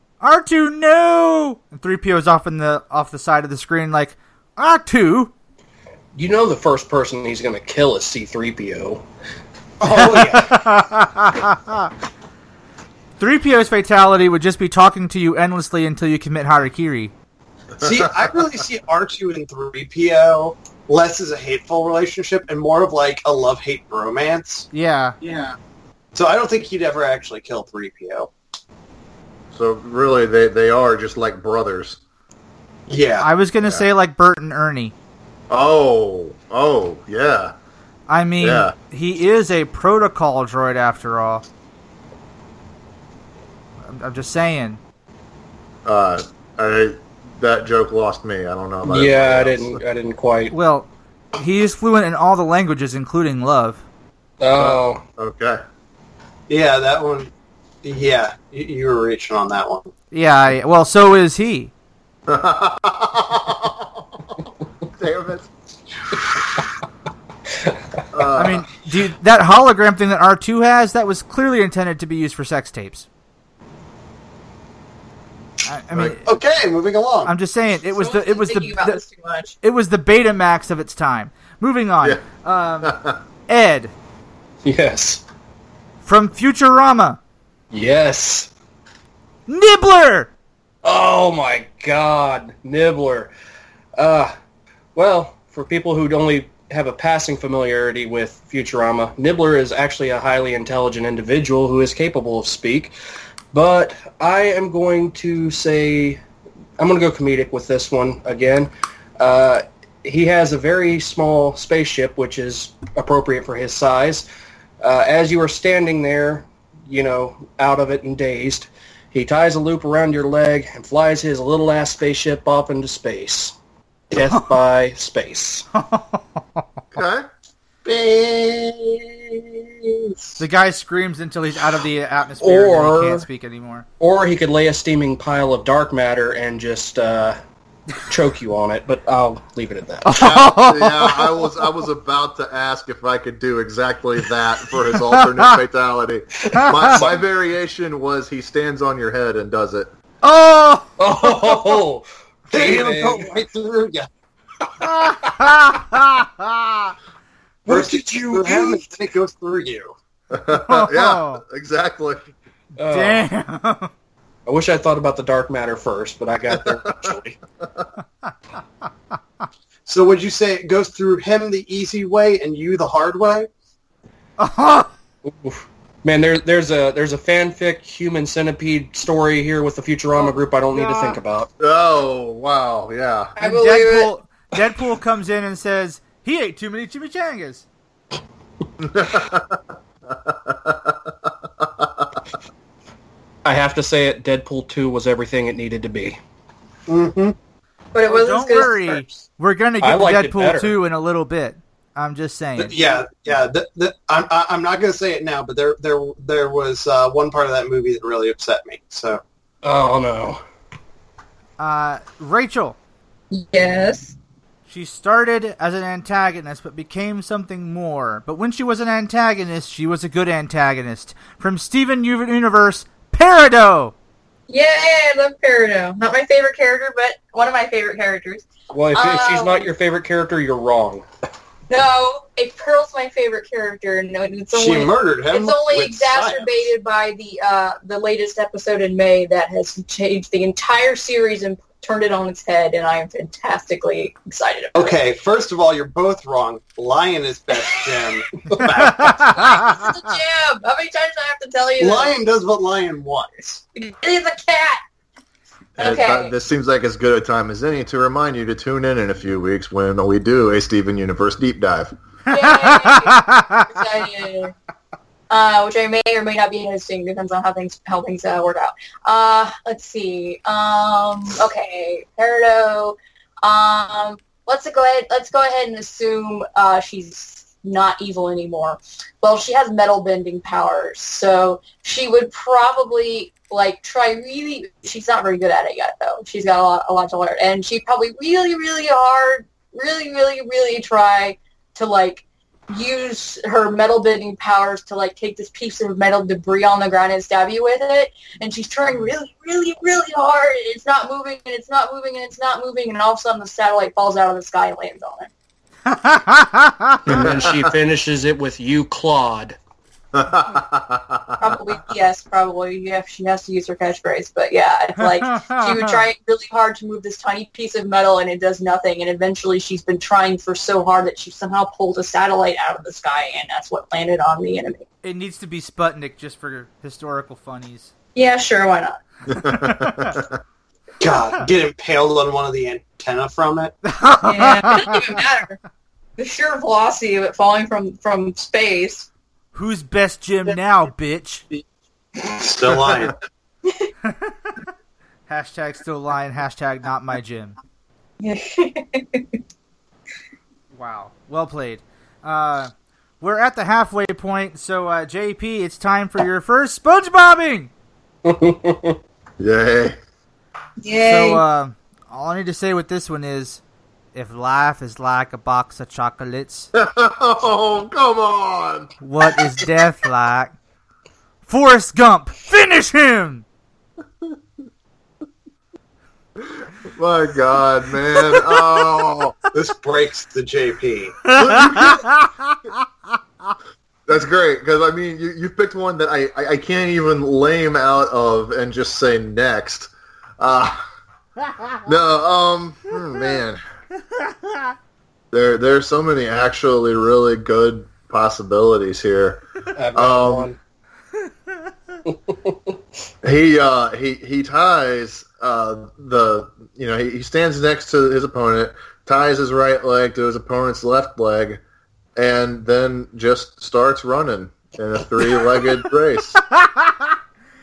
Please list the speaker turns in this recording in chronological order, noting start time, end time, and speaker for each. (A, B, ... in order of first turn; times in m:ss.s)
0:00.2-0:05.3 A
0:06.1-0:09.0 B
0:09.8-0:10.6 C
0:09.9-0:11.9 A
0:13.2-0:17.1 A
0:17.8-0:24.7 C
0:17.8-0:18.2 D
0:24.7-0:25.2 A
0:25.2-0:25.5 D
0:26.1-0:28.3 C
0:29.5-0:32.0 D
0:32.9-0:33.3 C
0:33.2-0:34.9 A
0:35.5-0:37.5 D
0:38.1-0:41.4 A
0:38.4-0:38.7 D
0:43.8-0:44.8 A
0:45.8-0:49.8 D
0:48.9-0:50.5 B
0:50.5-0:53.8 A
0:54.4-0:55.0 B
0:54.6-0:55.6 D
0:56.5-0:57.3 C
0:57.8-0:59.9 C
1:00.1-1:01.7 A
1:02.3-1:04.0 D
1:05.0-1:05.5 D
1:08.1-1:08.6 D
1:08.4-1:13.1 A
1:15.6-1:16.2 A
1:16.2-1:17.3 C
1:17.2-1:19.0 A
1:17.9-1:19.5 E
1:19.6-1:23.0 A
1:22.8-1:23.2 D
1:23.5-1:23.9 A
1:24.6-1:25.2 B
1:26.0-1:27.2 A
1:27.7-1:28.5 B
1:29.5-1:30.3 A
1:30.8-1:33.3 B
1:34.0-1:34.3 B
1:35.0-1:42.9 B
1:43.5-1:46.2 B
1:46.8-1:54.2 B
1:54.8-2:03.5 B
2:04.1-2:05.7 B
2:05.7-2:06.6 A
2:06.9-2:07.3 D
2:07.8-2:10.4 C
2:10.4-2:13.8 A
2:12.4-2:13.2 B
2:14.0-2:17.4 B
2:18.0-2:20.3 B
2:20.0-2:21.5 A
2:20.2-2:29.9 D
2:25.1-2:25.5 A
2:26.5-2:27.2 B
2:26.5-2:26.9 A
2:30.2-2:31.5 A
2:31.0-2:33.4 B
2:32.5-2:34.1 C
2:34.8-2:36.9 A
2:37.6-2:38.9 B
2:37.7-2:39.9 C
2:40.3-2:42.3 D
2:40.5-2:41.4 A
2:42.8-2:43.3 B
2:42.9-2:43.9 A
2:44.4-2:47.4 B
2:46.5-2:47.2 D
2:49.9-2:53.5 C
2:54.4-2:54.9 A
2:55.2-3:01.5 B
3:00.2-3:01.2 A
3:01.6-3:03.3 D
3:03.4-3:04.1 E
3:03.4-3:07.6 A
3:08.8-3:12.2 D
3:13.4-3:16.2 B
3:16.9-3:17.4 C
3:17.9-3:19.2 E
3:18.0-3:22.7 A
3:19.8-3:20.7 B
3:22.6-3:29.2 C
3:29.6-3:30.4 B
3:31.6-3:32.8 A
3:33.3-3:34.2 E
3:34.7-3:43.9 A
3:44.5-3:49.7 E
3:48.7-3:51.0 B
3:51.7-4:04.9 E
3:54.5-3:56.6 C
4:04.7-4:09.5 C
4:08.8-4:09.9 A
4:09.2-4:12.2 E
4:11.8-4:13.6 C
4:13.8-4:14.8 E
4:15.8-4:16.3 E
4:15.8-4:21.9 D
4:22.3-4:24.5 E
4:22.3-4:23.7 A
4:25.3-5:05.3 E
5:05.9-5:07.1 A
5:07.1-5:07.7 D
5:07.1-5:09.6 B
5:10.1-5:11.6 D
5:11.4-5:24.8 E
5:15.0-5:16.0 A
5:25.0-5:27.9 A
5:28.1-5:29.0 E
5:29.3-5:30.2 A
5:29.3-5:30.4 D
5:31.0-5:33.8 C
5:33.8-5:35.2 A
5:34.2-5:35.6 E
5:36.2-5:39.1 E
5:39.5-5:41.4 A
5:42.3-5:43.1 D
5:42.4-5:43.2 C
5:44.1-5:44.5 A
5:45.3-5:47.6 A
5:48.2-5:49.3 E
5:50.7-5:57.7 A
5:58.2-5:59.0 B
5:59.4-6:00.0 D
6:00.8-6:01.4 E
6:01.0-6:03.6 A
6:04.1-6:06.7 A
6:06.7-6:08.9 D
6:09.0-6:10.5 A
6:11.5-6:13.4 A
6:16.4-6:19.4 D
6:19.5-6:21.2 C
6:21.2-6:22.5 A
6:21.3-6:22.1 D
6:24.1-6:30.8 D
6:31.8-6:33.6 D
6:34.2-6:34.7 A
6:35.3-6:40.5 D
6:39.7-6:40.6 B
6:42.0-6:42.7 B
6:43.2-6:51.6 D
6:52.1-6:56.4 D
6:56.4-6:57.1 A